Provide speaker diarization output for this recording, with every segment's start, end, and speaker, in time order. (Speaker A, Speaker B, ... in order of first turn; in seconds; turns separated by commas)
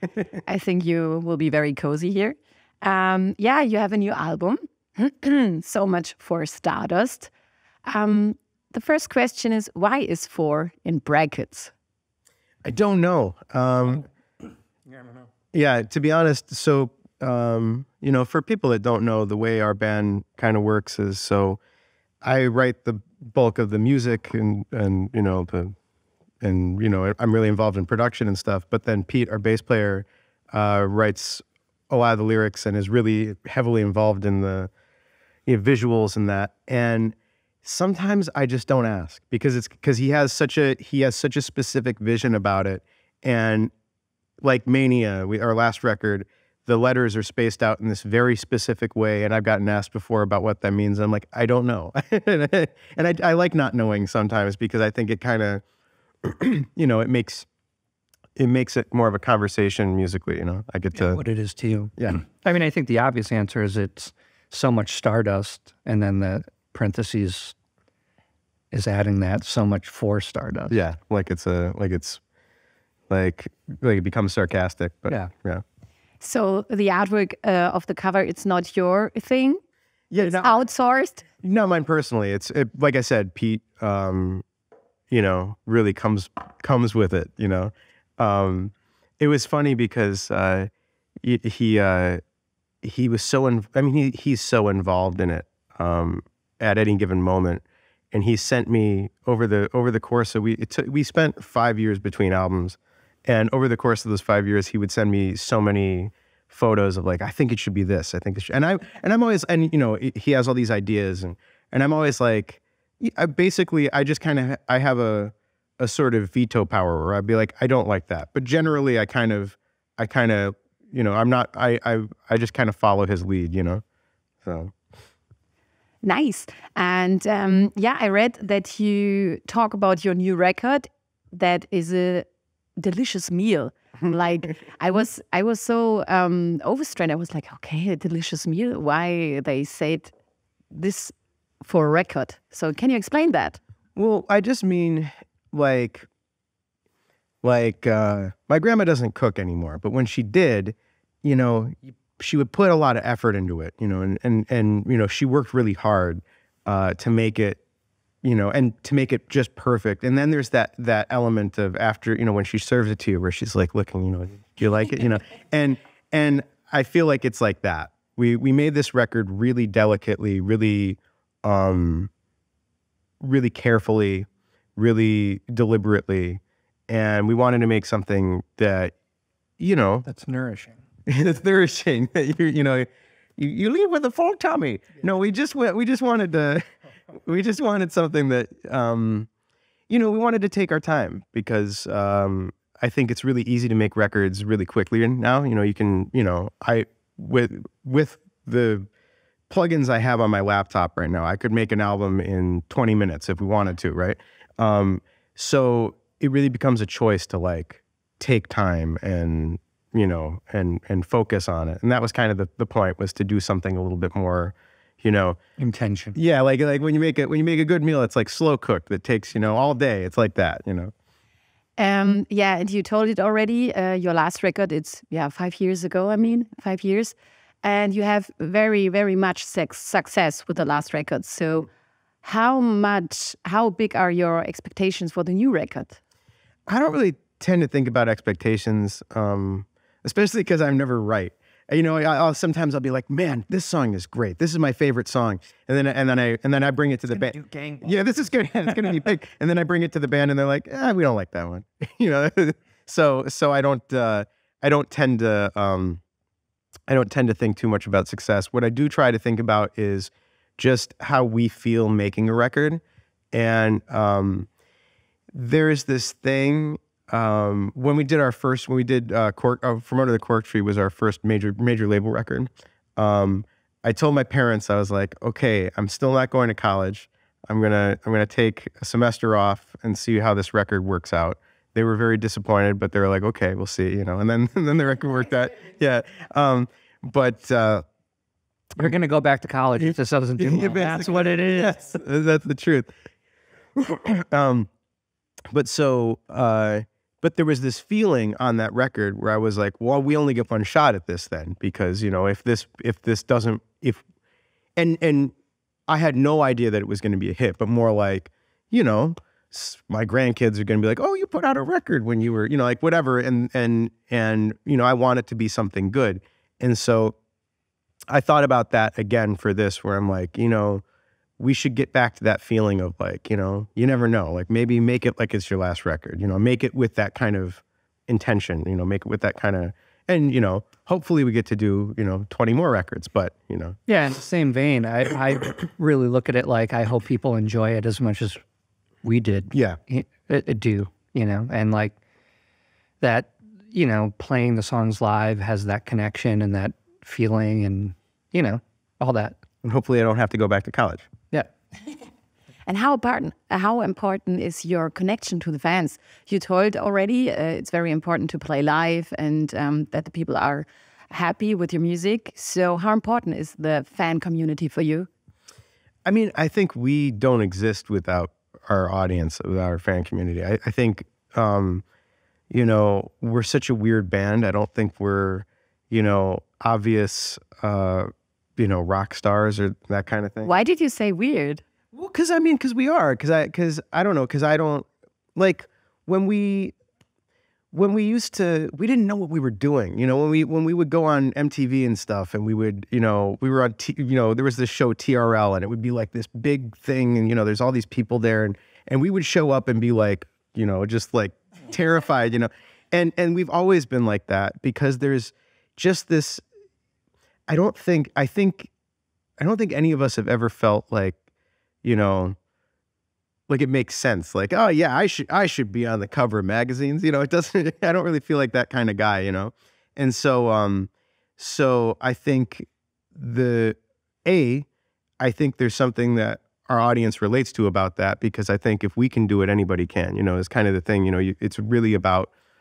Speaker A: 0.4-7.3, Speaker A: 7.8-11.7, Speaker B: 12.6-14.1, Speaker B: 15.5-21.6, Speaker B: 22.2-25.7, Speaker B: 26.4-34.7, Speaker B: 35.5-43.7, Speaker B: 44.4-55.6, Speaker B: 56.2-57.5, Speaker B: 58.4-61.2, Speaker C: 60.9-67.5, Speaker B: 62.0-62.2, Speaker C: 68.7-70.8, Speaker B: 70.7-72.2, Speaker B: 73.1-75.6, Speaker A: 76.2-79.6, Speaker B: 80.1-80.6, Speaker A: 80.2-81.2, Speaker B: 81.4-84.4, Speaker B: 85.1-90.7, Speaker B: 91.2-92.2, Speaker B: 92.8-123.8, Speaker B: 124.4-124.7, Speaker A: 126.0-132.3, Speaker A: 132.8-140.1, Speaker A: 140.7-143.6, Speaker B: 143.9-146.1, Speaker B: 147.4-157.6, Speaker B: 158.2-172.1, Speaker B: 173.2-178.9, Speaker B: 179.6-180.1, Speaker C: 180.0-180.8, Speaker B: 181.1-186.6, Speaker B: 187.1-189.3, Speaker B: 189.9-198.9, Speaker B: 199.5-215.4, Speaker C: 215.6-216.2, Speaker B: 216.1-220.9, Speaker A: 221.8-231.7, Speaker A: 232.2-236.0, Speaker B: 236.7-256.0, Speaker C: 247.2-247.8, Speaker B: 256.9-262.8, Speaker B: 263.3-264.5, Speaker B: 265.3-287.8, Speaker C: 288.8-291.8, Speaker B: 289.8-292.9, Speaker B: 293.8-294.7, Speaker B: 295.5-304.0, Speaker B: 304.8-305.3, Speaker B: 305.9-317.1, Speaker B: 318.1-320.8, Speaker B: 321.4-333.8, Speaker C: 333.9-338.4, Speaker C: 339.0-341.9, Speaker B: 339.5-339.8, Speaker C: 343.0-349.4, Speaker B: 349.6-351.1, Speaker A: 352.6-365.1, Speaker B: 366.0-371.8, Speaker B: 372.5-380.5, Speaker A: 380.4-381.6, Speaker B: 381.9-386.7, Speaker B: 387.7-406.4, Speaker B: 407.5-408.7, Speaker B: 409.4-411.2, Speaker B: 411.8-412.4, Speaker B: 413.5-424.7, Speaker B: 425.2-432.3